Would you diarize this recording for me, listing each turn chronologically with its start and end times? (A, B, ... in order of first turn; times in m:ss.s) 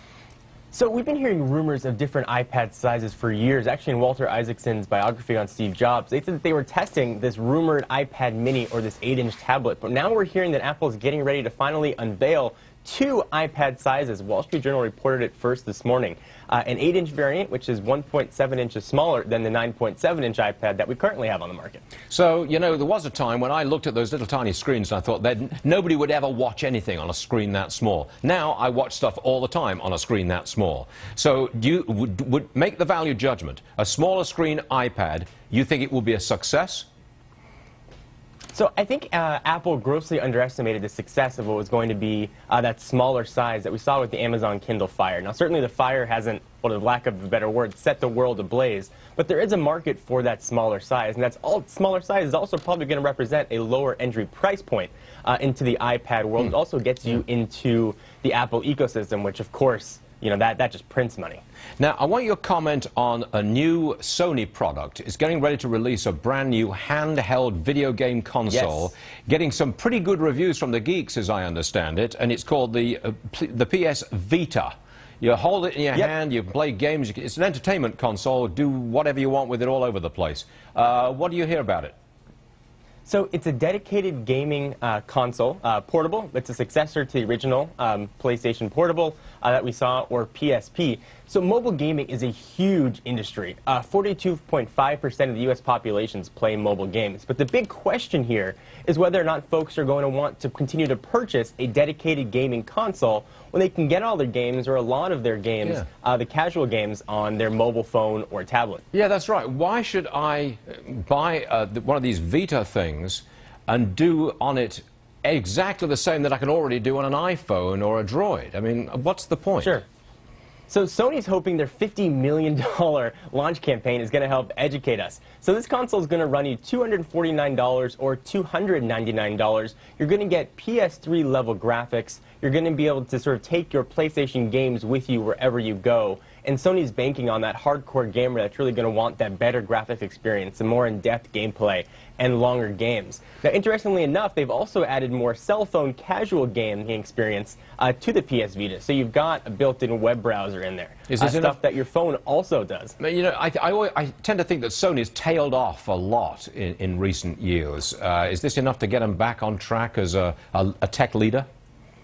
0:00.7-0:21.8 A
0:22.1-0:36.9 B
0:38.5-1:01.4 A
1:01.8-1:21.9 B
1:08.5-1:08.9 A
1:23.0-1:48.8 A
1:48.9-1:59.8 B
1:59.6-1:59.8 A
2:00.7-2:32.9 A
2:31.1-2:31.6 B
2:33.0-2:41.5 B